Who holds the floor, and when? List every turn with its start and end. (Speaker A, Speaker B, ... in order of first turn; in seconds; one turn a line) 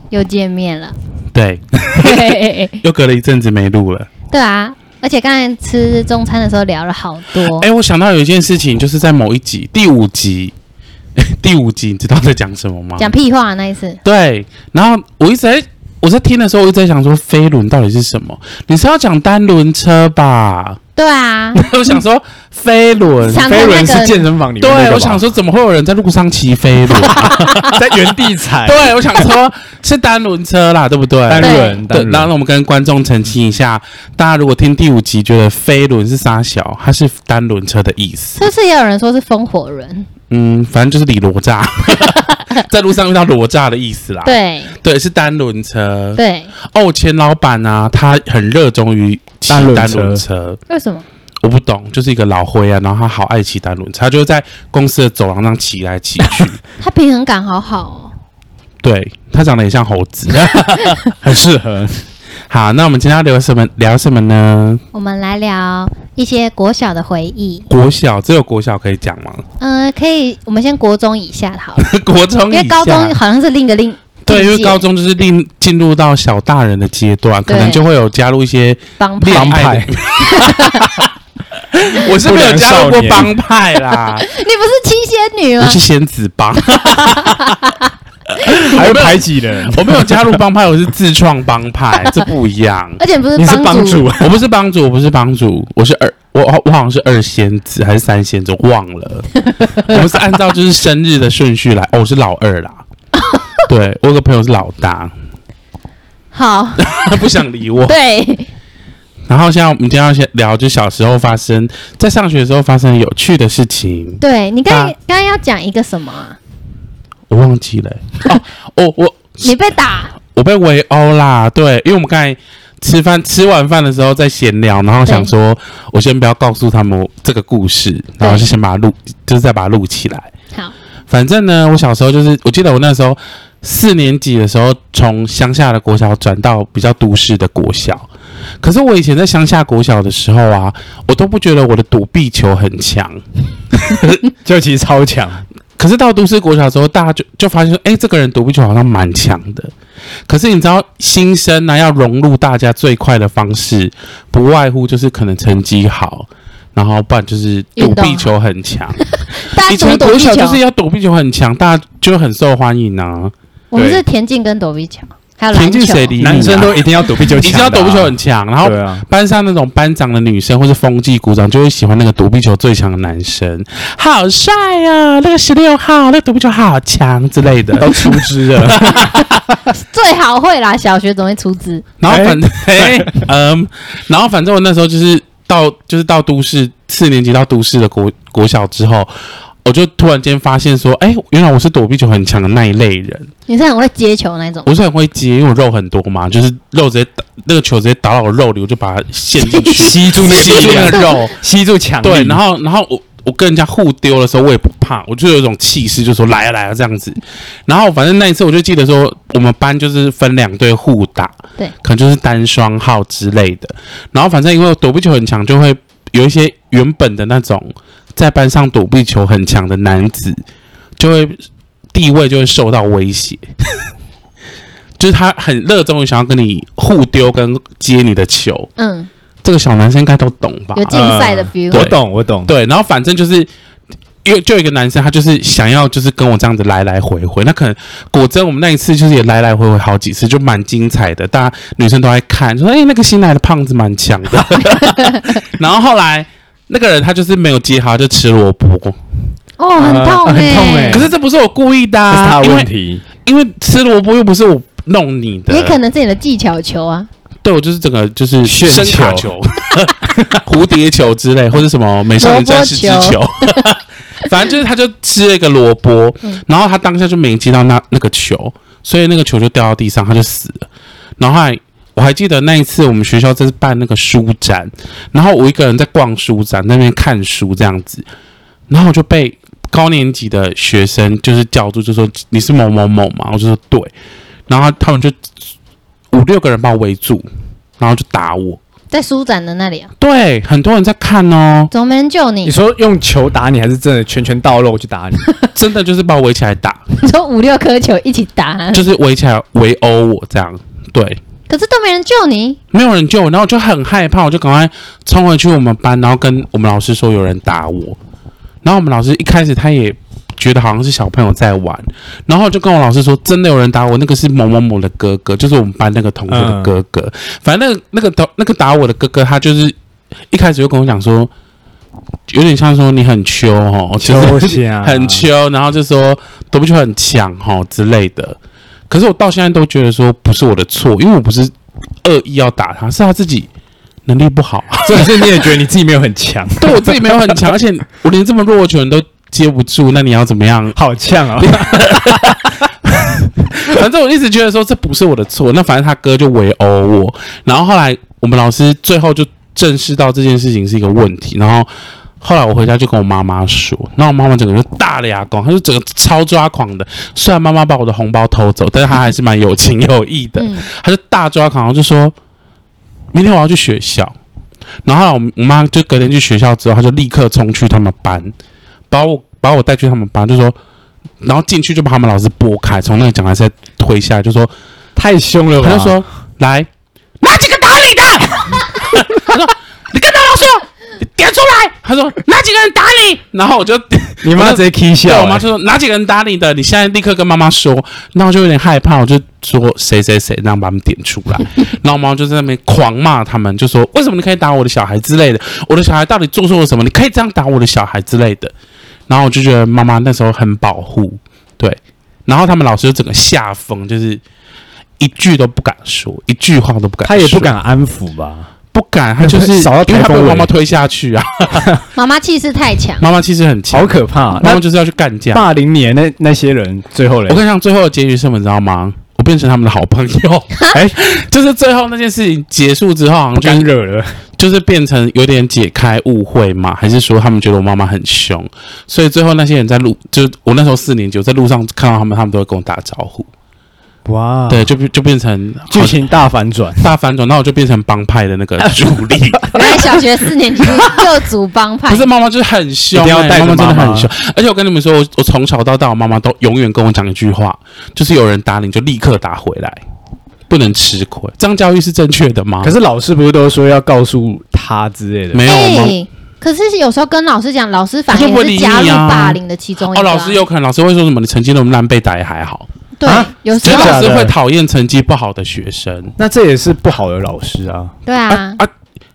Speaker A: 0.1-0.9
Speaker B: 1.3-4.1
Speaker A: 1.9-2.8
Speaker A: 4.3-7.7
Speaker B: 7.4-10.5
Speaker B: 11.2-13.1
Speaker A: 13.0-14.0
Speaker B: 14.0-20.8
Speaker A: 21.0-21.7
Speaker B: 21.6-23.7
Speaker A: 23.2-24.2
Speaker C: 23.4-25.2
Speaker B: 24.6-38.4
Speaker A: 27.1-27.7
Speaker C: 27.4-29.3
Speaker C: 31.3-32.3
Speaker A: 31.4-31.8
Speaker A: 38.4-40.1
Speaker B: 40.3-46.2
Speaker A: 42.0-42.4
Speaker A: 44.2-44.8
Speaker A: 46.2-46.5
Speaker B: 46.7-50.6
Speaker C: 49.5-50.2
Speaker A: 50.7-51.1
Speaker B: 51.4-56.6
Speaker A: 56.8-58.1
Speaker B: 58.8-61.0
Speaker C: 61.1-62.0
Speaker B: 62.5-64.8
Speaker A: 64.9-67.7
Speaker B: 67.7-69.4
Speaker A: 69.6-71.8
Speaker B: 71.8-73.2
Speaker A: 72.5-74.8
Speaker B: 74.3-81.1
Speaker A: 77.5-77.8
Speaker A: 79.0-80.9
Speaker C: 79.3-79.9
Speaker B: 81.7-84.3
Speaker C: 82.0-83.4
Speaker A: 84.1-85.8
Speaker B: 85.6-87.5
Speaker A: 86.7-87.9
Speaker B: 88.4-93.0
Speaker C: 88.5-90.4
Speaker A: 93.0-94.1
Speaker C: 93.4-94.4
Speaker B: 94.2-102.8
Speaker A: 99.5-99.9
Speaker A: 103.2-103.5
Speaker B: 103.7-105.1
Speaker A: 106.3-107.2
Speaker B: 106.8-108.0
Speaker A: 107.8-108.5
Speaker B: 109.3-114.9
Speaker A: 114.2-116.4
Speaker B: 117.3-130.3
Speaker A: 119.4-120.1
Speaker A: 128.2-128.5
Speaker B: 131.1-138.1
Speaker B: 138.6-143.2
Speaker B: 143.7-144.2
Speaker C: 144.4-145.4
Speaker B: 145.8-149.7
Speaker B: 150.3-159.0
Speaker A: 157.8-158.3
Speaker A: 159.0-160.6
Speaker B: 159.7-163.3
Speaker A: 163.7-166.1
Speaker C: 163.8-164.0
Speaker B: 165.5-179.5
Speaker C: 166.2-169.1
Speaker C: 177.8-179.2
Speaker A: 179.7-181.8
Speaker B: 182.0-189.1
Speaker C: 182.1-183.3
Speaker B: 189.7-193.3
Speaker A: 193.5-194.7
Speaker B: 194.7-201.3
Speaker A: 199.4-199.8
Speaker C: 199.8-202.4
Speaker A: 200.3-201.1
Speaker B: 202.0-220.4
Speaker B: 221.0-221.4
Speaker B: 221.9-223.8
Speaker B: 225.0-228.7
Speaker A: 228.8-229.1
Speaker B: 229.4-231.1
Speaker A: 230.8-231.9
Speaker C: 230.9-232.5
Speaker B: 231.7-233.5
Speaker B: 234.2-249.0
Speaker A: 244.8-245.2
Speaker A: 249.6-251.1
Speaker C: 249.8-251.1
Speaker B: 250.9-252.7
Speaker C: 252.1-253.0
Speaker B: 253.2-255.8
Speaker A: 255.5-257.1
Speaker B: 257.4-270.7
Speaker C: 258.4-259.3
Speaker A: 262.2-263.7
Speaker B: 271.2-278.1
Speaker B: 278.7-283.9
Speaker B: 284.5-285.2
Speaker B: 286.1-287.3
Speaker B: 287.8-288.6
Speaker A: 288.9-289.9
Speaker B: 290.0-291.7
Speaker A: 291.7-292.6
Speaker C: 292.4-295.2
Speaker A: 295.2-295.5
Speaker B: 295.5-296.8
Speaker A: 297.0-298.9
Speaker B: 298.7-301.2
Speaker A: 301.5-302.6
Speaker B: 302.7-308.0
Speaker B: 308.6-319.8
Speaker C: 316.3-316.7
Speaker B: 320.3-321.3
Speaker B: 322.3-328.4
Speaker C: 324.0-325.2
Speaker B: 328.9-331.5
Speaker B: 332.0-333.5
Speaker B: 334.1-335.4
Speaker C: 334.8-337.4
Speaker B: 336.6-340.8
Speaker C: 340.8-343.3
Speaker B: 341.4-342.5
Speaker B: 343.5-351.7
Speaker B: 352.2-362.1
Speaker A: 360.4-360.7
Speaker B: 363.1-364.2
Speaker B: 364.9-368.3
Speaker B: 368.9-370.6
Speaker B: 371.2-374.5
Speaker C: 375.0-376.0
Speaker B: 375.6-376.7
Speaker B: 377.2-398.5
Speaker C: 384.2-385.5
Speaker B: 399.1-404.2
Speaker B: 405.0-407.5
Speaker C: 407.1-408.5
Speaker B: 408.7-411.8
Speaker C: 409.2-410.5
Speaker A: 411.9-413.1
Speaker B: 413.0-415.4
Speaker C: 413.7-414.6
Speaker C: 415.3-417.4
Speaker B: 417.3-423.7
Speaker C: 423.4-424.1
Speaker B: 424.4-433.3
Speaker C: 434.1-434.7
Speaker B: 434.5-436.1
Speaker C: 435.7-436.9
Speaker B: 436.8-440.0
Speaker C: 438.6-439.8
Speaker A: 439.5-442.1
Speaker B: 441.9-449.8
Speaker C: 442.9-444.1
Speaker B: 450.5-452.8
Speaker C: 452.6-455.5
Speaker B: 455.3-456.0
Speaker A: 455.5-460.4
Speaker B: 458.1-462.7
Speaker A: 463.0-464.1
Speaker C: 463.1-464.3
Speaker B: 463.6-466.1
Speaker C: 466.2-467.9
Speaker A: 468.1-468.6
Speaker B: 468.3-468.7